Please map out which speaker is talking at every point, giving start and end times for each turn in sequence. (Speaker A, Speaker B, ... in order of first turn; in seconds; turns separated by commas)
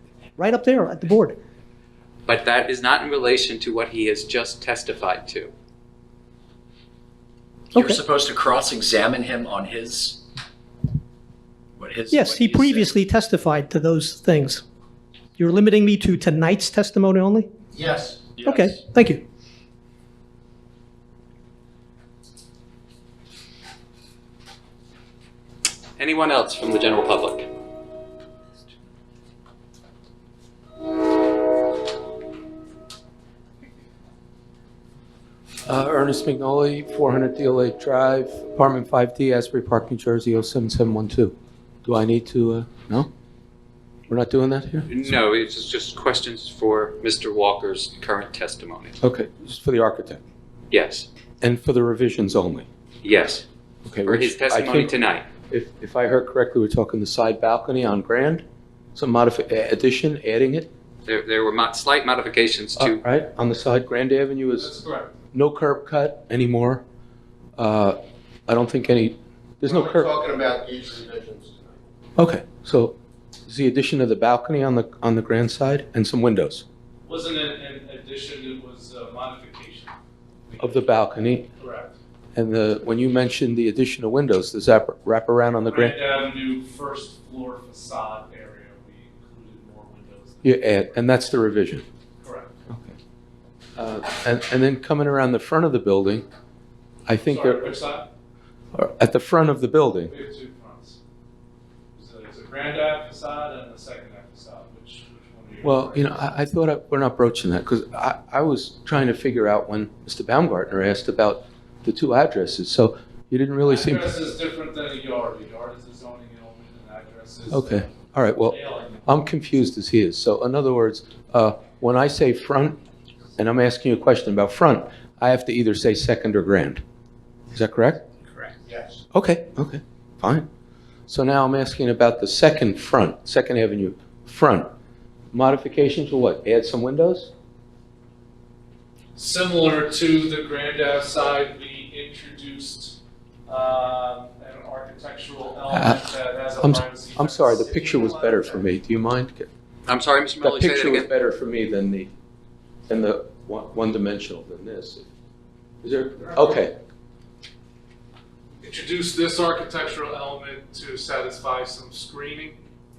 Speaker A: 0.4-1.4, Speaker B: 2.2-5.5, Speaker C: 7.7-10.2, Speaker C: 11.8-12.9, Speaker A: 12.1-14.6, Speaker A: 15.4-17.5, Speaker D: 17.7-18.3, Speaker A: 18.4-19.2, Speaker B: 26.0-27.5, Speaker E: 35.6-43.1, Speaker E: 44.1-45.2, Speaker B: 44.9-49.0, Speaker E: 49.0-50.2, Speaker B: 50.7-51.1, Speaker E: 51.4-52.7, Speaker B: 53.0-53.4, Speaker E: 53.9-54.9, Speaker B: 54.0-55.3, Speaker E: 55.5-58.4, Speaker E: 58.9-60.7, Speaker B: 61.0-63.0, Speaker E: 62.8-64.7, Speaker F: 64.6-65.1, Speaker E: 65.3-66.8, Speaker E: 67.6-70.1, Speaker D: 69.6-71.8, Speaker E: 72.2-73.0, Speaker E: 73.5-76.6, Speaker F: 77.0-79.9, Speaker E: 80.6-81.5, Speaker F: 81.6-81.9, Speaker E: 82.3-86.0, Speaker F: 85.6-90.6, Speaker E: 90.4-91.8, Speaker F: 92.2-92.5, Speaker E: 92.7-92.9, Speaker E: 93.8-96.2, Speaker E: 97.1-97.7, Speaker F: 97.2-98.1, Speaker E: 98.7-100.1, Speaker F: 100.1-101.0, Speaker F: 101.9-106.1, Speaker E: 105.6-114.1, Speaker F: 113.6-117.8, Speaker E: 117.5-122.8, Speaker F: 118.5-119.0, Speaker E: 123.4-126.8, Speaker E: 127.5-128.0, Speaker D: 128.7-129.0, Speaker E: 129.1-130.5, Speaker E: 131.1-134.7, Speaker E: 135.3-137.3, Speaker F: 139.1-147.6, Speaker E: 145.7-146.0, Speaker E: 146.6-149.5, Speaker D: 147.7-148.6, Speaker B: 149.9-151.1, Speaker E: 150.4-152.1, Speaker E: 152.9-155.1, Speaker E: 155.8-156.8, Speaker F: 158.6-162.6